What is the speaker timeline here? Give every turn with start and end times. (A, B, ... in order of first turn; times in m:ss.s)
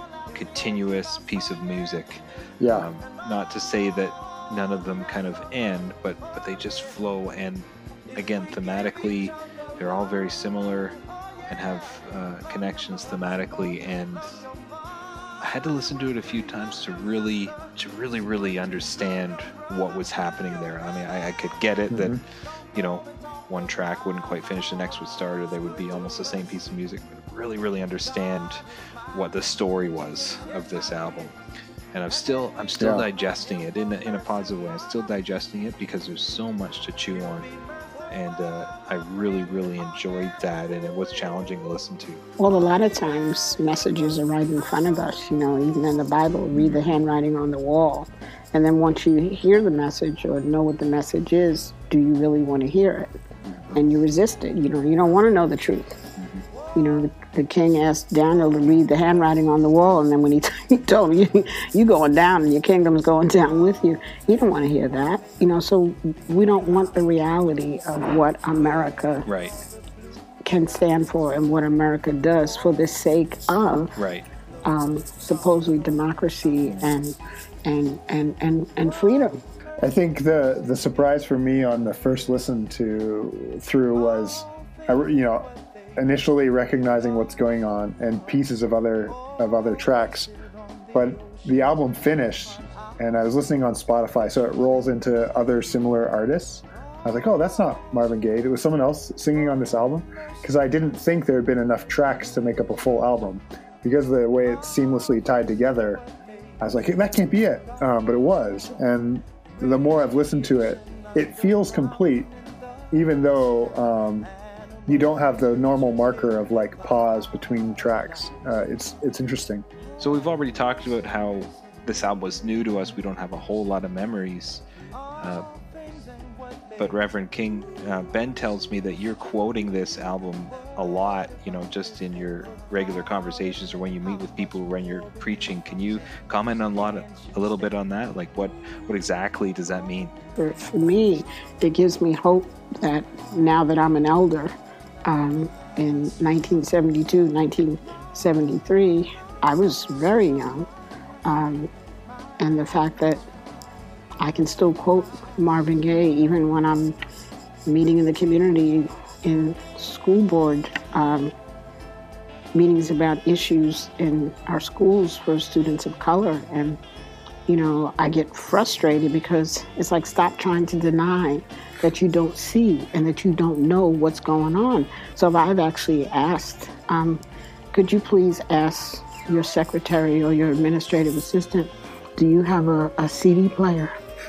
0:00.3-0:11.0 A
0:02.6-0:02.9 B
0:11.5-0:14.3 A
0:15.4-0:28.6 A
0:21.9-0:22.2 B
0:29.1-0:31.4 A
0:31.9-0:37.5 A
0:32.8-0:33.1 B
0:38.1-0:42.2 A
0:42.4-0:53.1 C
0:46.5-0:47.0 A
0:53.5-0:53.8 A
0:53.7-0:56.0 C
0:56.2-0:56.4 A
0:56.8-1:09.3 C
1:09.3-1:09.6 A
1:10.4-1:14.0 C
1:14.0-1:14.2 A
1:14.6-1:19.4 C
1:19.8-1:30.3 B
1:30.9-1:46.0 B
1:46.6-1:52.3 B
1:52.9-1:54.3 B
1:54.9-1:59.6 B
2:00.0-2:04.6 A
2:05.2-2:05.5 A
2:06.8-2:20.2 A
2:20.4-2:24.5 C
2:25.0-2:30.7 C
2:31.2-2:31.7 C
2:32.4-2:33.2 C
2:34.2-2:37.0 C
2:37.7-2:41.3 C
2:42.5-2:46.8 C
2:47.5-2:57.2 C
2:57.7-3:04.0 C